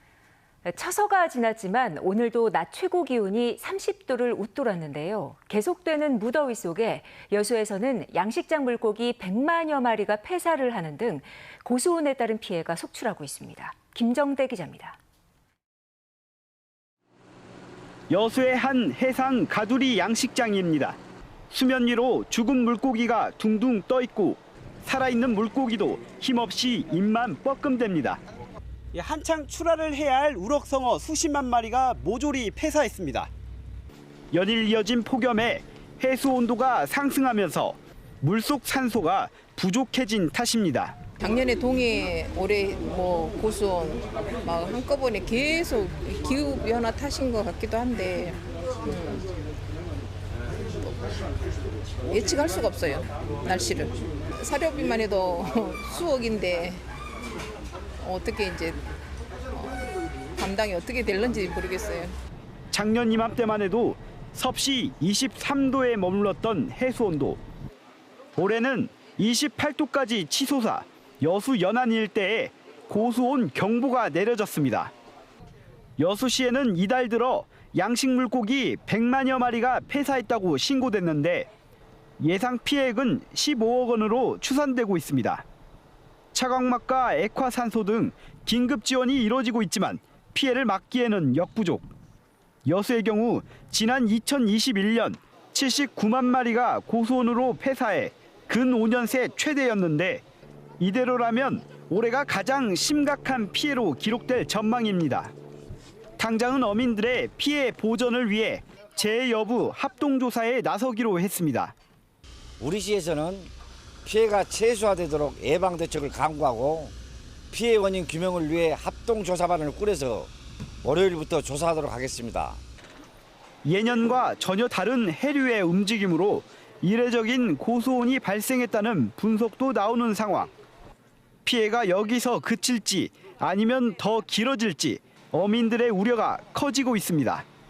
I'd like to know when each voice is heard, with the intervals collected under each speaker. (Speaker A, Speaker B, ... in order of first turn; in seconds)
Speaker A: 0.7-15.0
Speaker B: 18.1-21.0, 21.5-28.2, 28.9-33.3, 34.3-41.0, 62.7-67.4, 68.4-74.9, 76.0-81.5, 82.2-85.5, 86.3-91.9, 92.7-100.2, 100.8-105.3, 106.2-111.7, 123.6-130.5, 131.4-137.5
Speaker C: 41.2-49.2, 52.1-56.8, 58.0-58.8, 59.5-59.8, 60.4-62.1
Speaker D: 112.6-113.4, 114.0-116.9, 117.5-120.3, 120.8-122.6